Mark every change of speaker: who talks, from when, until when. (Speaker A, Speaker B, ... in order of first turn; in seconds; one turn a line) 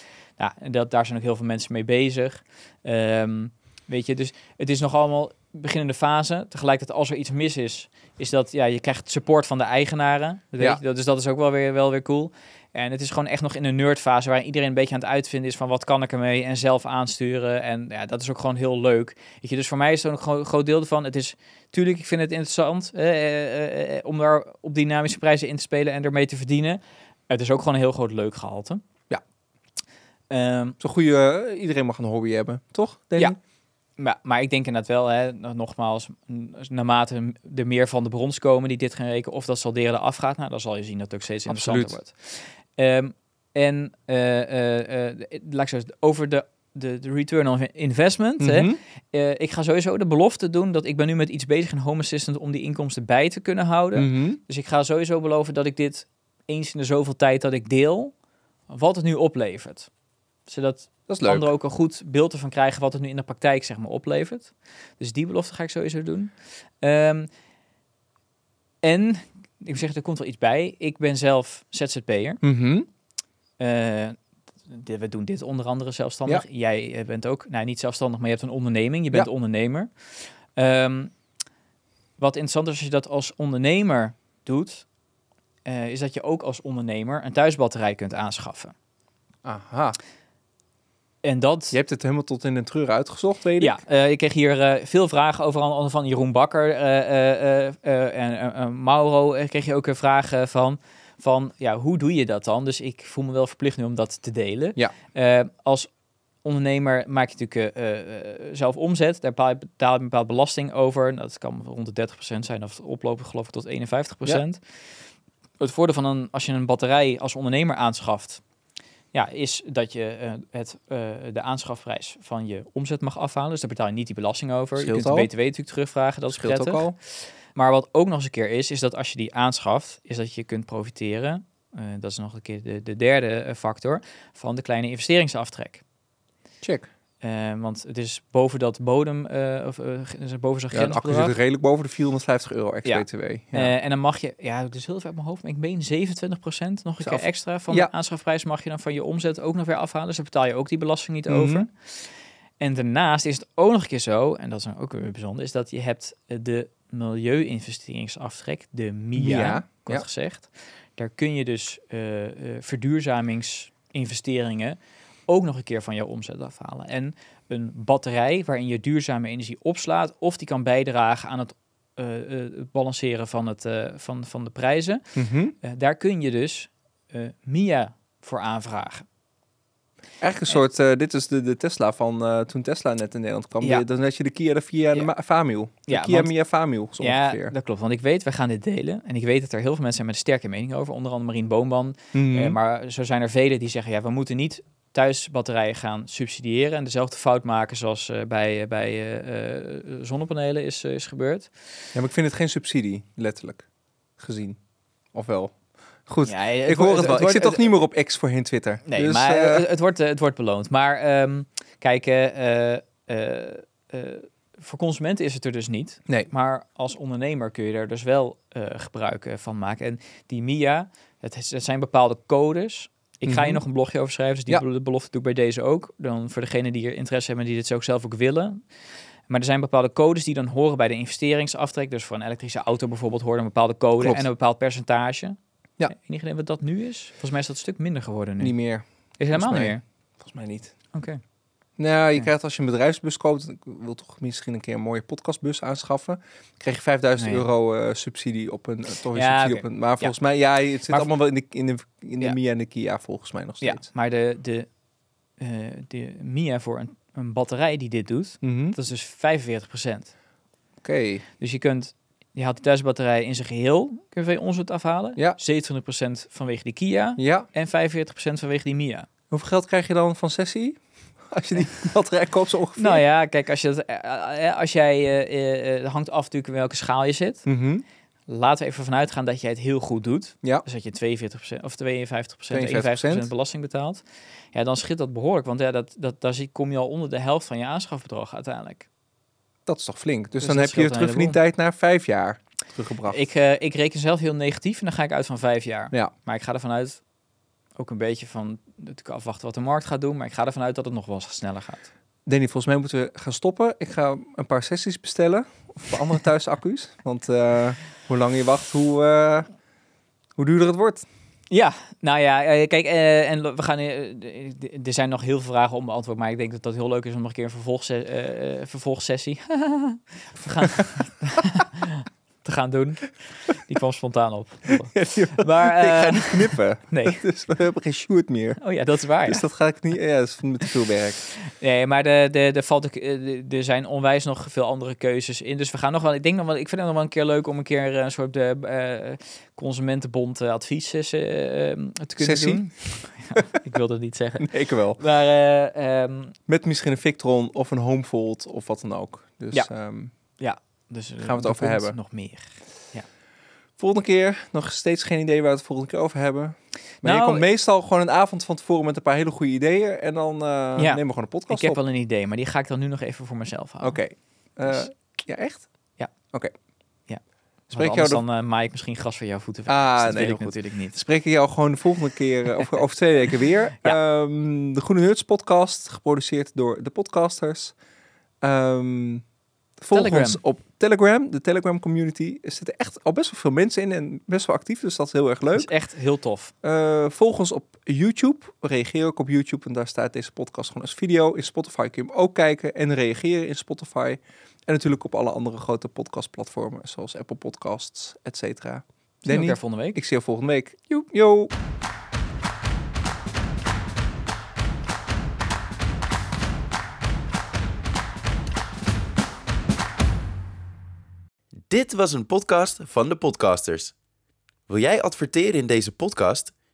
Speaker A: 0.4-28.8
Speaker A: 30.3-30.8
Speaker B: 30.8-33.4
Speaker A: 34.0-58.1
Speaker B: 41.5-42.0
Speaker B: 48.4-48.8
Speaker B: 54.0-54.4
Speaker A: 58.7-59.9
Speaker A: 60.5-67.3
Speaker B: 61.1-61.5
Speaker A: 68.8-72.4
Speaker B: 72.4-72.9
Speaker A: 73.6-79.9
Speaker A: 80.5-81.1
Speaker A: 82.2-84.8
Speaker A: 85.6-88.7
Speaker B: 89.4-90.0
Speaker A: 91.2-91.8
Speaker B: 91.7-93.8
Speaker A: 93.6-105.9
Speaker A: 106.4-114.6
Speaker A: 115.6-118.4
Speaker A: 119.1-126.8
Speaker B: 124.8-125.3
Speaker B: 126.3-126.9
Speaker A: 127.5-135.8
Speaker B: 136.6-136.9
Speaker A: 137.2-141.3
Speaker B: 140.7-143.7
Speaker A: 142.8-164.8
Speaker B: 147.0-147.9
Speaker B: 151.3-151.7
Speaker B: 159.2-160.0
Speaker A: 165.3-175.1
Speaker B: 175.1-175.5
Speaker A: 175.6-179.0
Speaker B: 180.2-187.5
Speaker A: 185.9-186.3
Speaker A: 187.0-201.5
Speaker B: 192.1-192.6
Speaker B: 201.9-203.7
Speaker B: 204.2-204.6
Speaker B: 205.1-209.7
Speaker A: 206.2-207.8
Speaker A: 208.8-228.6
Speaker B: 223.2-223.6
Speaker A: 229.3-239.8
Speaker B: 234.0-234.3
Speaker B: 238.4-240.7
Speaker A: 240.9-241.2
Speaker B: 241.8-253.8
Speaker A: 247.2-247.4
Speaker A: 249.1-250.1
Speaker A: 253.6-254.7
Speaker A: 255.4-260.1
Speaker B: 258.4-258.8
Speaker B: 260.8-261.2
Speaker A: 261.4-269.1
Speaker B: 267.2-267.5
Speaker B: 269.3-273.0
Speaker A: 272.8-277.4
Speaker B: 277.4-277.8
Speaker A: 278.3-288.9
Speaker B: 282.5-283.3
Speaker B: 289.6-293.2
Speaker A: 290.4-291.4
Speaker A: 293.1-297.0
Speaker A: 297.8-301.9
Speaker B: 302.2-309.5
Speaker B: 310.4-311.1
Speaker A: 311.5-327.2
Speaker B: 324.9-328.7
Speaker A: 328.6-329.5
Speaker B: 329.2-331.2
Speaker A: 331.4-346.3
Speaker B: 342.2-343.4
Speaker B: 344.4-345.0
Speaker B: 346.5-350.1
Speaker A: 349.5-353.1
Speaker B: 351.2-352.0
Speaker B: 353.8-361.8
Speaker A: 357.0-357.4
Speaker A: 360.8-364.0
Speaker B: 363.8-365.7
Speaker A: 367.1-371.0
Speaker B: 367.7-368.2
Speaker B: 369.7-377.7
Speaker B: 378.4-379.2
Speaker B: 379.8-385.7
Speaker A: 379.9-380.4
Speaker A: 385.5-386.5
Speaker B: 386.6-401.5
Speaker A: 399.2-400.0
Speaker C: 411.7-413.9
Speaker C: 414.7-416.5